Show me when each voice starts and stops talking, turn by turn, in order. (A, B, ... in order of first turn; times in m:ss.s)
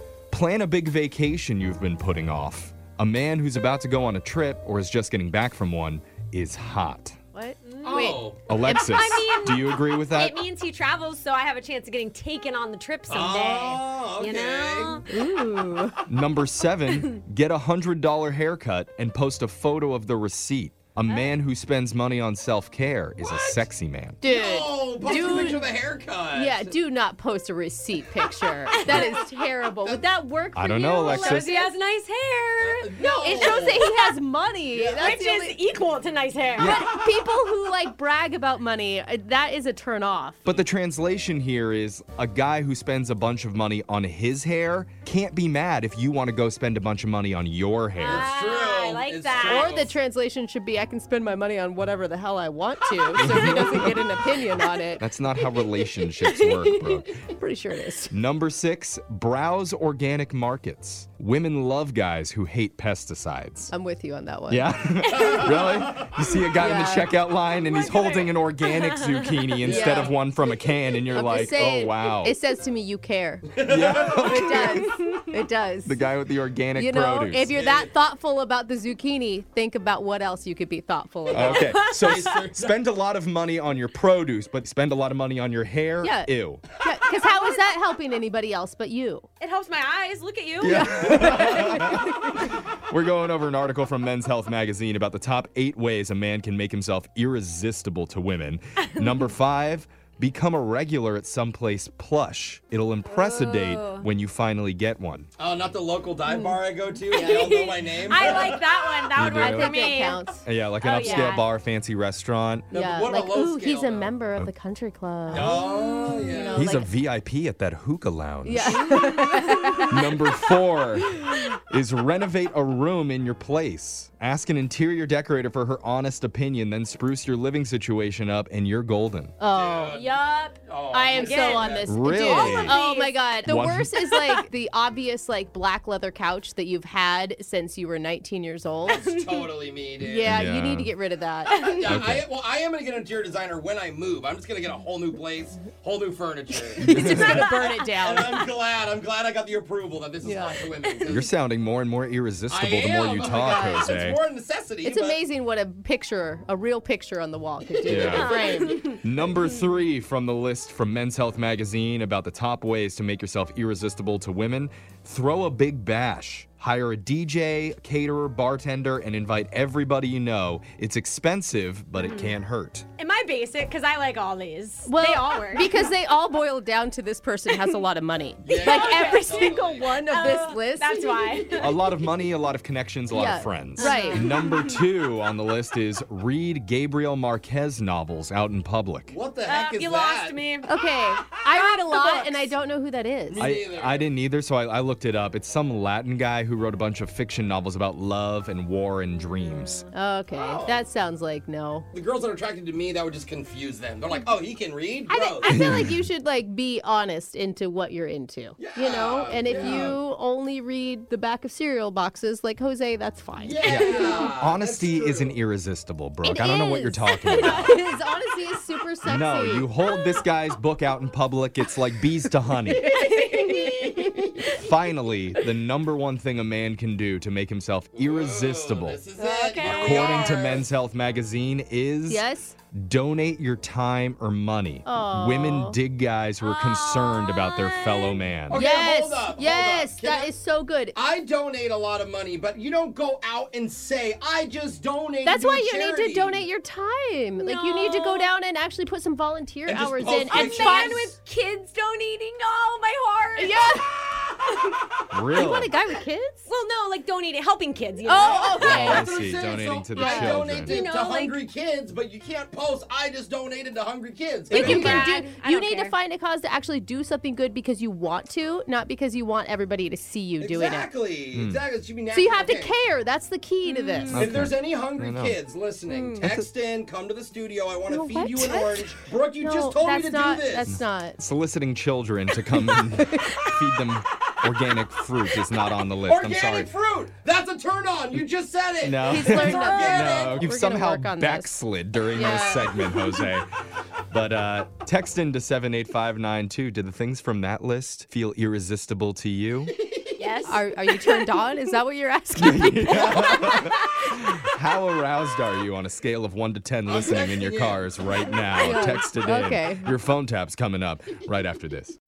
0:00.3-0:07.2 A
0:07.3-0:09.0 B
0:07.6-0:15.1 C
0:07.8-0:08.5 D
0:08.5-0:10.4 A
0:13.1-0:15.0 D
0:15.1-0:16.0 B
0:16.1-0:24.2 A
0:23.2-0:23.6 D
0:24.2-0:25.7 B
0:24.2-0:26.8 D
0:26.3-0:31.8 B
0:28.7-0:29.1 C
0:28.7-0:30.0 D
0:30.5-0:31.5 A
0:31.0-0:34.1 C
0:32.6-0:33.9 D
0:33.2-0:35.6 B
0:34.7-0:35.0 D
0:35.0-0:36.8 C
0:36.6-0:40.5 B
0:36.6-0:36.9 A
0:40.4-0:48.3 A
0:48.0-0:49.7 C
0:48.0-0:49.9 D
0:49.3-0:55.1 B
0:53.2-0:53.9 A
0:55.0-0:57.2 A
0:56.2-0:56.6 C
0:56.6-0:58.1 B
0:58.1-1:03.7 A
1:03.7-1:05.6 B
1:04.5-1:12.3 A
1:05.1-1:05.5 C
1:06.5-1:07.1 B
1:07.6-1:09.4 C
1:09.6-1:10.2 B
1:09.6-1:10.2 D
1:11.0-1:16.1 B
1:13.5-1:14.5 D
1:13.6-1:15.2 A
1:15.8-1:17.5 A
1:16.7-1:21.7 B
1:17.5-1:17.9 D
1:21.2-1:22.8 D
1:21.3-1:26.6 A
1:21.6-1:22.2 C
1:26.0-1:29.3 B
1:29.4-1:31.4 C
1:30.6-1:45.3 A
1:30.6-1:32.5 B
1:43.1-1:44.1 C
1:45.4-1:49.0 D
1:46.3-1:46.6 B
1:47.1-1:48.6 B
1:47.1-1:50.3 C
1:49.1-1:51.4 B
1:49.1-1:52.7 A
1:50.8-1:51.5 C
1:52.7-1:54.1 D
1:52.7-1:56.9 B
1:55.3-1:56.6 D
1:56.5-1:59.2 A
1:58.4-2:01.5 B
1:59.2-1:59.8 C
1:59.9-2:09.4 A
2:09.4-2:10.0 B
2:09.5-2:12.0 D
2:09.9-2:10.6 C
2:10.9-2:19.0 B
2:11.1-2:13.4 C
2:11.8-2:12.8 A
2:13.4-2:14.0 A
2:14.0-2:14.4 C
2:18.8-2:20.4 D
2:18.9-2:19.4 C
2:20.0-2:21.6 B
2:20.2-2:20.9 A
2:21.5-2:31.3 D
2:21.5-2:22.0 C
2:21.8-2:22.2 A
2:26.7-2:28.4 B
2:26.8-2:27.4 A
2:30.2-2:30.6 B
2:31.1-2:34.2 A
2:32.5-2:35.2 D
2:33.4-2:33.9 B
2:34.8-2:39.0 B
2:37.8-2:39.0 C
2:37.9-2:52.9 A
2:51.9-2:52.3 C
2:53.0-2:55.9 C
2:54.8-3:01.4 B
2:58.4-3:00.1 D
2:58.4-3:01.8 C
3:01.3-3:01.6 D
3:01.6-3:09.1 A
3:03.1-3:04.4 B
3:03.8-3:04.8 C
3:09.1-3:10.4 D
3:09.4-3:12.5 C
3:10.6-3:13.4 B
3:13.3-3:14.1 D
3:13.4-3:19.8 A
3:19.9-3:21.9 B
3:20.3-3:20.8 D
3:21.9-3:25.7 D
3:25.1-3:34.3 B
3:25.5-3:26.0 A
3:28.6-3:30.0 D
3:33.4-3:35.4 D
3:33.6-3:37.8 A
3:36.2-3:39.7 B
3:37.1-3:37.6 C
3:39.0-3:42.9 A
3:39.9-3:40.2 C
3:42.7-3:44.6 C
3:42.7-3:44.2 B
3:44.4-3:49.0 A
3:47.9-3:50.7 D
3:49.2-3:50.4 C
3:49.6-3:58.6 A
3:52.1-3:52.6 B
3:54.8-3:55.8 B
3:56.4-3:58.2 C
3:58.5-4:00.3 D
3:58.5-4:00.9 B
4:00.9-4:06.4 D
4:05.2-4:11.0 B
4:07.4-4:08.3 C
4:09.7-4:11.1 D
4:10.3-4:13.8 C
4:13.4-4:14.0 B
4:15.1-4:15.7 A
4:15.3-4:16.5 B
4:16.5-4:19.0 C
4:18.0-4:19.1 B
4:18.5-4:25.1 D
4:18.5-4:20.7 A
4:20.0-4:21.4 C
4:20.0-4:20.4 B
4:24.5-4:30.9 B
4:24.5-4:25.1 A
4:24.6-4:26.0 C
4:30.4-4:32.8 D
4:31.3-4:31.6 A
4:32.1-4:34.2 B
4:33.6-4:34.4 C
4:34.1-4:35.4 A
4:34.1-4:40.8 D
4:35.9-4:36.2 C
4:36.2-4:36.5 A
4:37.9-4:38.8 B
4:39.4-4:41.2 B
4:40.6-4:46.7 A
4:42.6-4:43.4 B
4:46.0-4:50.5 D
4:48.8-4:53.5 A
4:49.0-4:51.5 B
4:52.1-4:53.2 B
4:54.1-4:59.7 A
4:59.8-5:00.2 D
5:00.2-5:00.7 C
5:00.4-5:03.5 B
5:02.3-5:12.0 A
5:02.9-5:03.7 D
5:06.8-5:08.8 D
5:08.6-5:09.9 B